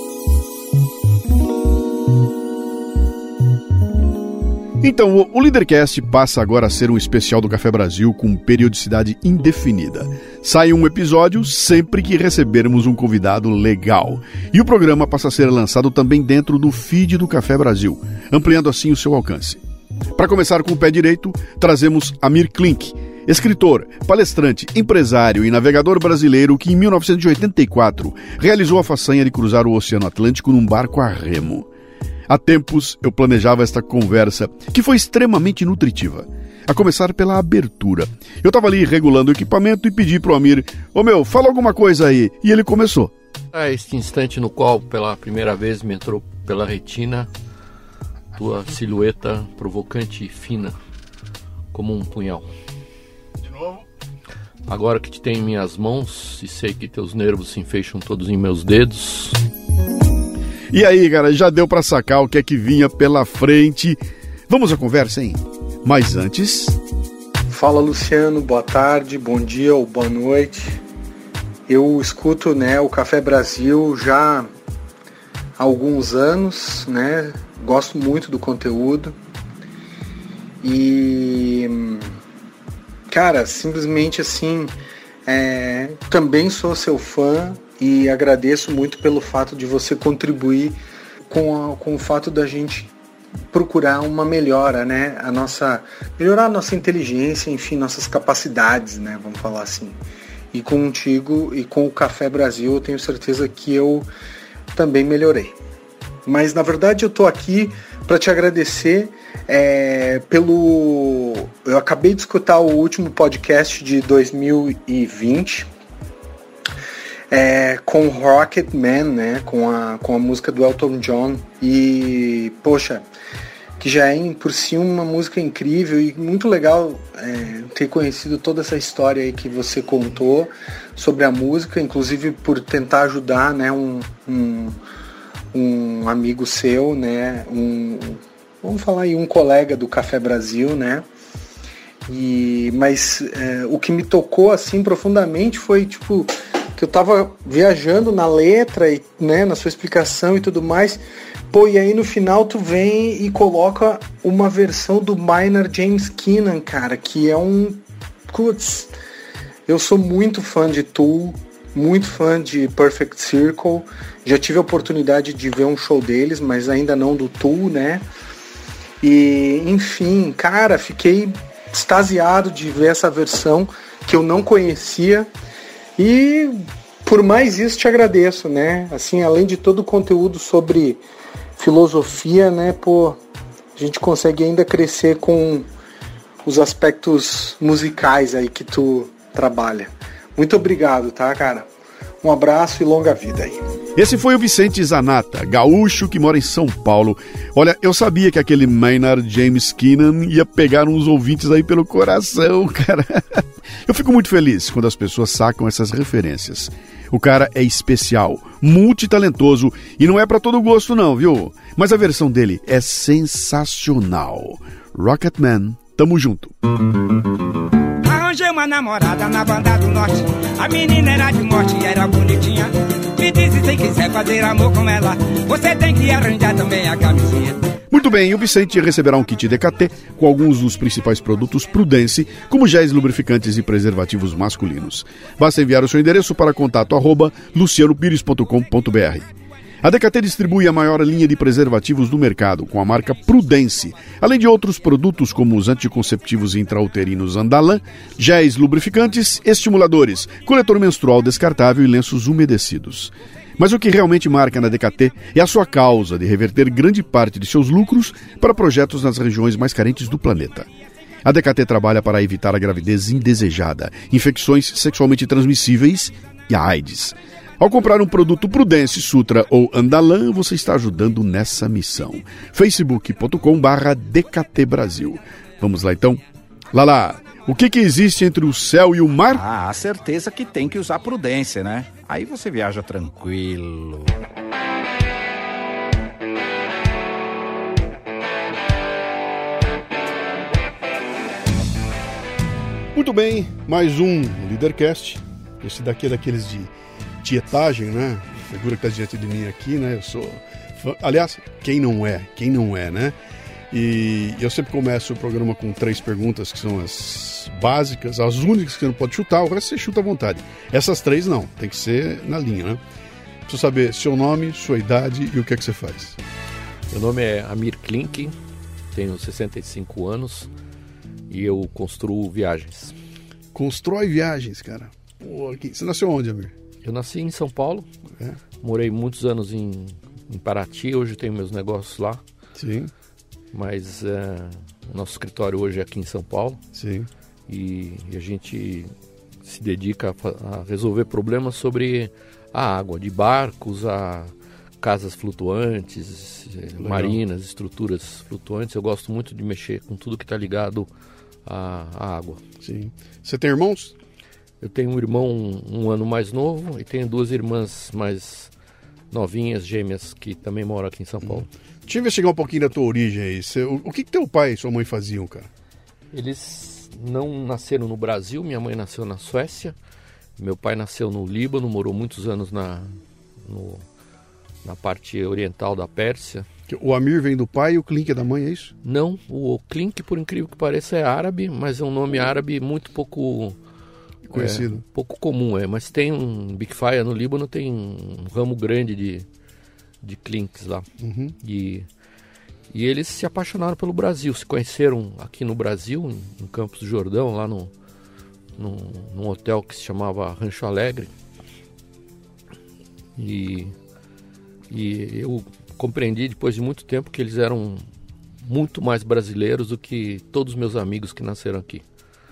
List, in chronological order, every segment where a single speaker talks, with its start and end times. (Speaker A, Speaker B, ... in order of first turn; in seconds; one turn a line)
Speaker A: 4.8-19.6
Speaker A: 20.1-31.7
Speaker A: 32.3-43.1
Speaker B: 43.5-47.3
Speaker B: 48.3-50.7
Speaker B: 51.7-52.5
Speaker A: 53.4-53.8
Speaker B: 54.7-59.4
Speaker A: 60.7-66.8
Speaker C: 67.5-70.8
Speaker C: 71.7-74.5
Speaker C: 75.6-79.1
Speaker C: 80.6-82.2
Speaker C: 83.1-84.7
Speaker C: 85.2-92.9
Speaker C: 93.5-100.0
Speaker C: 100.5-104.1
Speaker C: 104.7-105.5
Speaker C: 106.2-115.7
Speaker C: 117.3-123.0
Speaker C: 123.8-134.8
Speaker C: 135.5-141.1
Speaker C: 142.1-158.9
Speaker C: 159.7-168.0
Speaker C: 169.0-175.3
Speaker C: 176.0-181.0
Speaker C: 181.6-183.2
Speaker C: 183.8-185.7
Speaker C: 186.4-191.7
Speaker C: 192.2-193.6
Speaker A: 193.9-216.5
Speaker D: 218.0-227.7
Speaker A: 227.9-239.3
Speaker A: 239.8-260.7
Speaker A: 261.2-276.2
Speaker A: 276.7-279.4
Speaker E: 279.3-284.1
Speaker A: 292.9-303.1
Speaker A: 303.7-312.8
Speaker A: 313.4-316.2
Speaker B: 316.9-318.3
Speaker B: 318.9-320.5
Speaker B: 321.3-322.9
Speaker A: 323.5-326.5
Speaker B: 326.8-327.9
Speaker B: 328.6-332.2
Speaker A: 332.6-332.9
Speaker B: 333.5-336.6
Speaker A: 336.7-337.1
Speaker B: 337.5-338.9
Speaker B: 339.4-350.9
Speaker A: 346.8-347.2
Speaker B: 351.4-352.4
Speaker A: 352.6-353.9
Speaker B: 354.6-358.5
Speaker B: 359.1-361.5
Speaker A: 361.2-365.5
Speaker B: 366.1-369.7
Speaker B: 370.4-372.9
Speaker B: 373.4-373.8
Speaker B: 374.6-376.5
Speaker A: 376.7-378.7
Speaker B: 378.8-383.6
Speaker A: 384.3-384.8
Speaker B: 384.3-389.2
Speaker B: 390.0-390.9
Speaker A: 391.0-391.3
Speaker B: 391.4-391.9
Speaker B: 392.7-397.7
Speaker B: 398.6-401.1
Speaker B: 403.2-403.7
Speaker B: 404.7-407.8
Speaker B: 408.4-411.8